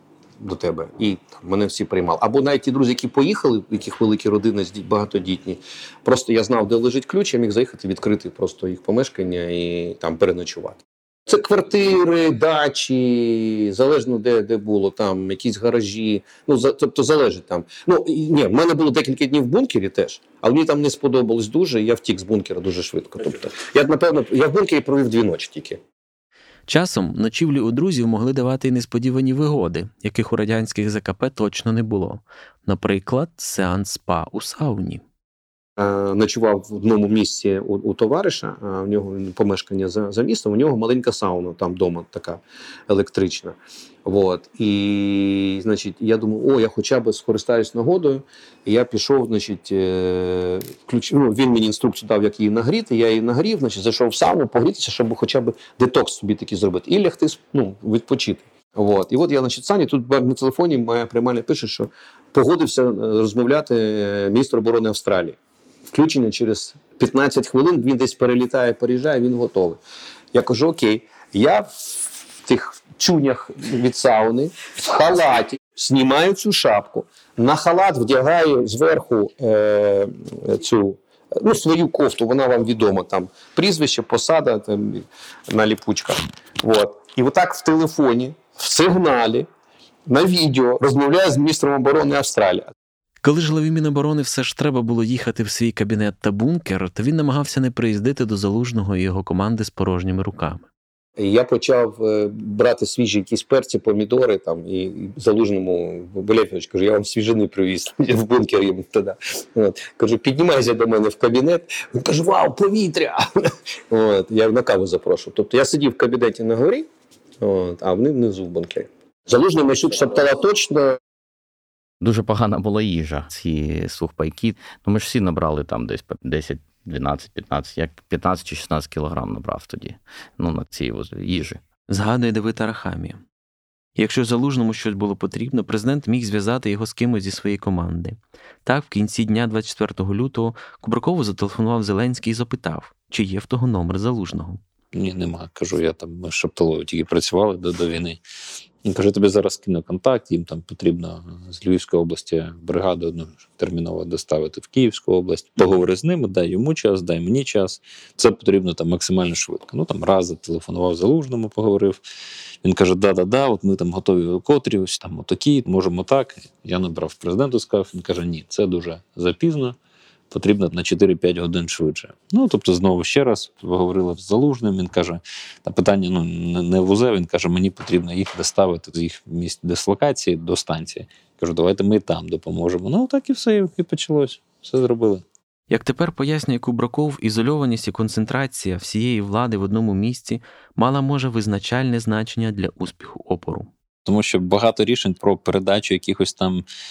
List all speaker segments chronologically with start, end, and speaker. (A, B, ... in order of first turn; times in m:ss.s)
0:00.4-0:25.8 A
0:26.7-0:35.0 B
0:35.8-1:05.4 A
1:05.9-1:09.8 A
1:10.3-1:29.5 A
1:30.1-1:32.7 A
1:33.2-1:40.7 B
1:41.2-1:56.9 A
1:57.4-2:01.0 A
2:02.0-2:11.6 C
2:11.9-2:13.2 B
2:14.0-2:24.6 B
2:24.9-2:28.2 D
2:28.8-2:42.0 D
2:42.6-2:49.8 D
2:50.3-3:05.2 D
3:05.7-3:13.7 B
3:14.0-3:16.6 D